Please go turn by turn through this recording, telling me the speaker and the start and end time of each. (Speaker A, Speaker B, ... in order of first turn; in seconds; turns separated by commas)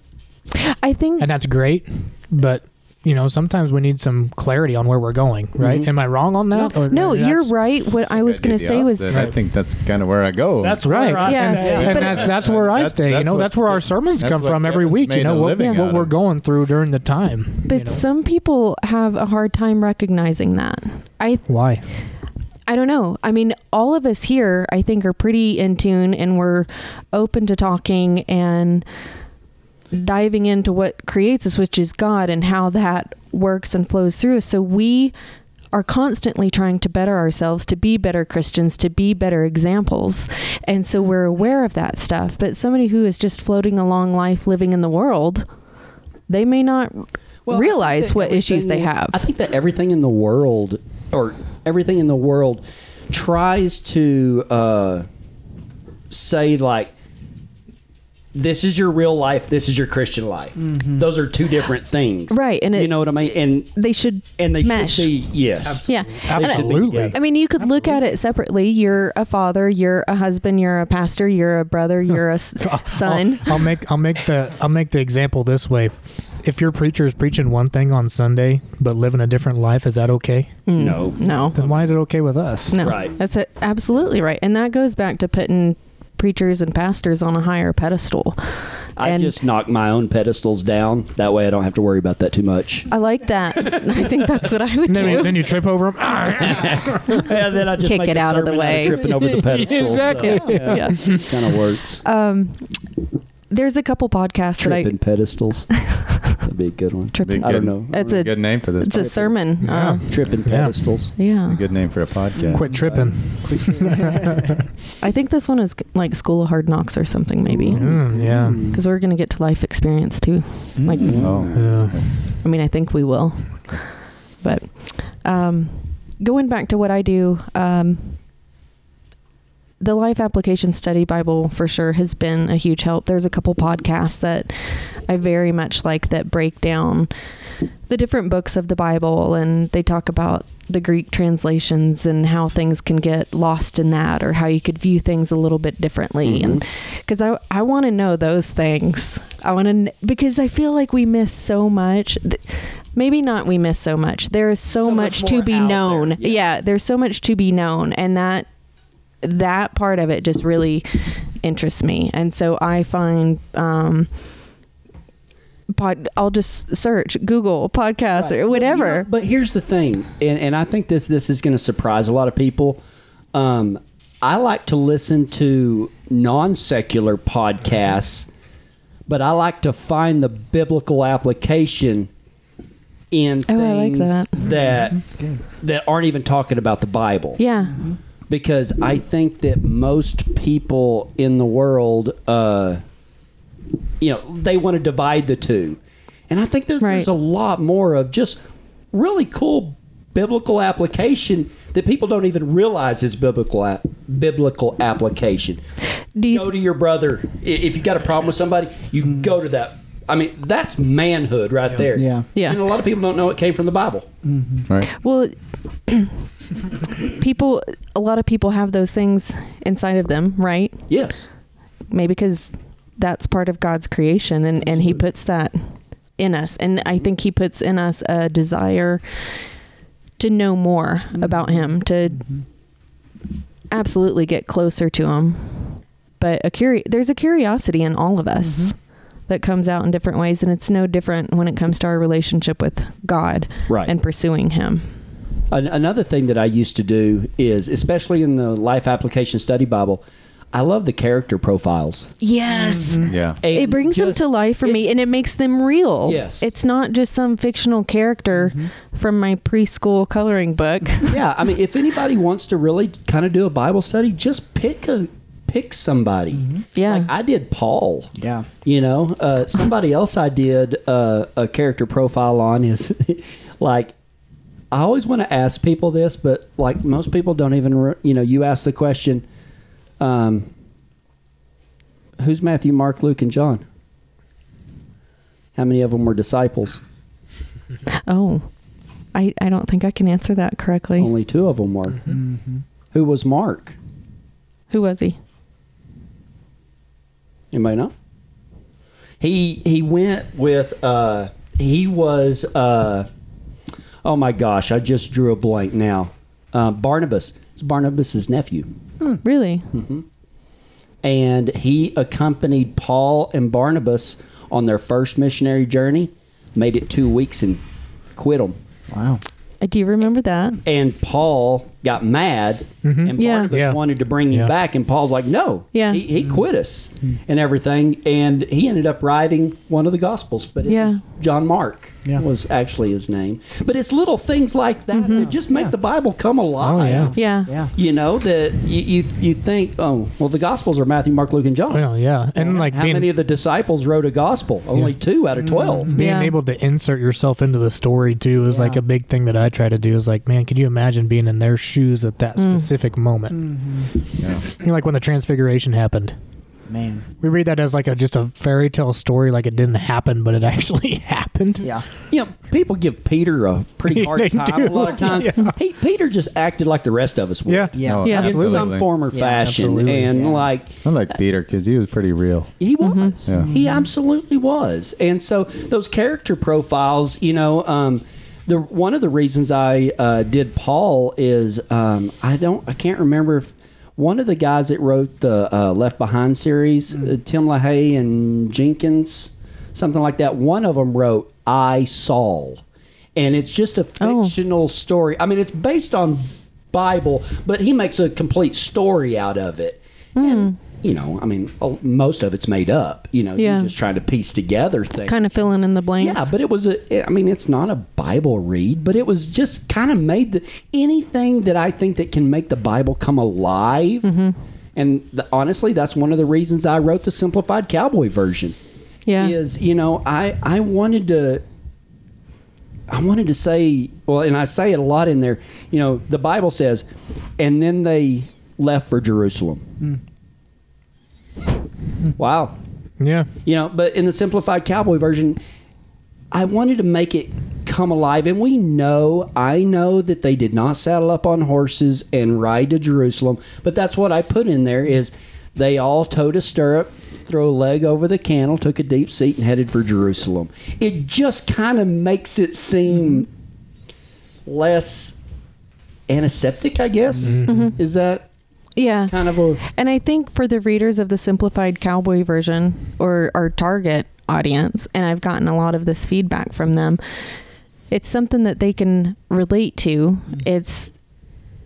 Speaker A: 0.6-1.3, Speaker B: 1.2-7.5, Speaker C: 5.6-5.9, Speaker A: 6.5-9.3, Speaker D: 8.1-16.1, Speaker B: 9.1-9.4, Speaker C: 10.6-12.3, Speaker B: 10.8-18.0, Speaker A: 11.2-12.3, Speaker A: 15.6-15.8, Speaker A: 17.7-21.5, Speaker B: 21.5-21.9, Speaker A: 22.7-28.9, Speaker A: 29.9-35.1, Speaker A: 35.7-45.5, Speaker A: 46.3-49.3, Speaker C: 47.5-55.0, Speaker C: 56.1-56.9, Speaker C: 58.3-63.7, Speaker E: 60.6-61.1, Speaker A: 62.3-65.2, Speaker C: 64.4-67.2, Speaker B: 65.7-67.2, Speaker A: 65.8-73.6, Speaker B: 72.6-75.9, Speaker B: 76.4-80.5, Speaker A: 80.7-81.6, Speaker C: 80.8-81.6, Speaker B: 81.5-82.9, Speaker A: 82.7-89.3, Speaker C: 82.8-83.1, Speaker C: 89.0-92.9, Speaker A: 92.9-95.5, Speaker C: 93.5-94.2, Speaker B: 94.8-97.3, Speaker C: 96.4-102.0, Speaker A: 97.8-99.1, Speaker B: 99.3-101.3, Speaker A: 100.1-101.2, Speaker A: 102.0-102.8, Speaker A: 103.5-104.9, Speaker C: 104.6-108.0, Speaker A: 105.7-106.4, Speaker A: 107.1-110.1, Speaker D: 107.2-109.3, Speaker C: 108.9-109.3, Speaker B: 109.6-110.9, Speaker C: 110.0-111.1, Speaker A: 111.2-111.6, Speaker D: 111.4-112.9, Speaker C: 112.4-113.9, Speaker E: 112.4-114.5, Speaker B: 112.5-114.6, Speaker A: 115.0-117.8, Speaker C: 117.5-118.8, Speaker B: 117.7-118.7, Speaker A: 118.6-121.2, Speaker E: 120.8-121.3, Speaker C: 121.0-121.8, Speaker D: 121.2-122.1, Speaker B: 121.5-122.1, Speaker A: 122.4-128.2, Speaker A: 129.8-137.1, Speaker A: 137.9-158.5, Speaker C: 146.2-146.6, Speaker C: 154.7-156.4, Speaker A: 159.2-164.1, Speaker A: 165.7-169.1, Speaker C: 168.2-172.8, Speaker C: 173.3-178.3, Speaker C: 179.1-182.1, Speaker C: 183.1-185.0, Speaker A: 183.5-184.4, Speaker E: 184.4-185.4, Speaker C: 185.6-187.4, Speaker A: 187.4-187.9, Speaker C: 188.3-192.8, Speaker C: 194.0-198.4, Speaker A: 196.8-197.1, Speaker C: 198.9-205.6, Speaker A: 206.1-206.5, Speaker C: 206.3-214.1, Speaker E: 211.9-212.2, Speaker A: 212.3-212.6, Speaker E: 214.2-214.7, Speaker A: 214.9-215.4, Speaker A: 215.9-216.2, Speaker A: 216.8-220.8, Speaker C: 220.9-221.3, Speaker A: 221.9-229.0, Speaker C: 224.6-225.0, Speaker A: 230.2-232.3, Speaker A: 233.7-238.8, Speaker E: 238.4-238.7, Speaker A: 239.3-244.9, Speaker C: 245.5-252.1, Speaker A: 252.2-261.2, Speaker E: 252.5-253.2, Speaker D: 253.0-253.4, Speaker C: 253.4-254.8, Speaker C: 256.0-256.5, Speaker C: 261.1-268.1, Speaker A: 266.8-267.1, Speaker E: 268.1-268.5, Speaker C: 268.6-273.9, Speaker C: 274.7-279.2, Speaker C: 280.0-280.5, Speaker C: 282.2-283.6, Speaker C: 285.6-286.8, Speaker A: 287.9-288.5, Speaker A: 289.1-291.1, Speaker C: 291.0-292.1, Speaker E: 292.1-292.6, Speaker C: 292.9-293.8, Speaker A: 294.7-295.2, Speaker C: 297.5-297.9, Speaker C: 299.2-303.1, Speaker C: 304.0-308.7, Speaker A: 309.2-309.7, Speaker C: 309.7-310.0, Speaker C: 311.0-317.6, Speaker C: 318.1-318.6, Speaker E: 318.9-319.2, Speaker A: 319.6-320.6, Speaker C: 320.6-337.2, Speaker B: 322.8-324.5, Speaker A: 323.2-323.5, Speaker A: 325.7-326.0, Speaker A: 330.7-331.0, Speaker A: 334.9-335.3, Speaker E: 335.3-335.7, Speaker B: 336.6-337.2, Speaker E: 336.9-337.7, Speaker A: 337.1-337.5, Speaker C: 337.7-341.8, Speaker B: 341.7-343.1, Speaker C: 342.4-345.9, Speaker E: 345.4-345.9, Speaker B: 345.9-353.5, Speaker A: 345.9-346.4, Speaker E: 348.5-348.8, Speaker A: 352.4-352.7, Speaker E: 353.3-353.9, Speaker B: 354.4-356.1, Speaker E: 356.7-357.1, Speaker B: 357.2-361.7, Speaker C: 362.1-370.8, Speaker B: 363.9-365.6, Speaker B: 367.4-368.7, Speaker E: 367.7-370.5, Speaker D: 367.8-368.9, Speaker A: 368.0-368.3, Speaker B: 369.3-370.1, Speaker D: 370.8-372.5, Speaker C: 372.6-392.6, Speaker A: 372.8-373.2, Speaker E: 373.3-373.9, Speaker C: 393.1-405.4, Speaker A: 394.0-394.3, Speaker A: 400.1-400.6, Speaker A: 403.4-403.7, Speaker A: 405.1-406.3, Speaker C: 406.0-414.1, Speaker A: 414.0-414.4, Speaker C: 414.8-418.6, Speaker A: 419.1-419.3, Speaker C: 419.2-421.4, Speaker C: 422.9-426.9, Speaker C: 427.4-429.6, Speaker C: 432.2-432.6, Speaker B: 433.0-433.3, Speaker C: 433.4-435.4, Speaker C: 436.3-453.3, Speaker C: 454.4-455.2, Speaker C: 456.1-458.2, Speaker B: 457.2-457.7, Speaker A: 457.4-457.8, Speaker A: 458.8-467.0, Speaker C: 459.1-459.6, Speaker A: 467.9-470.9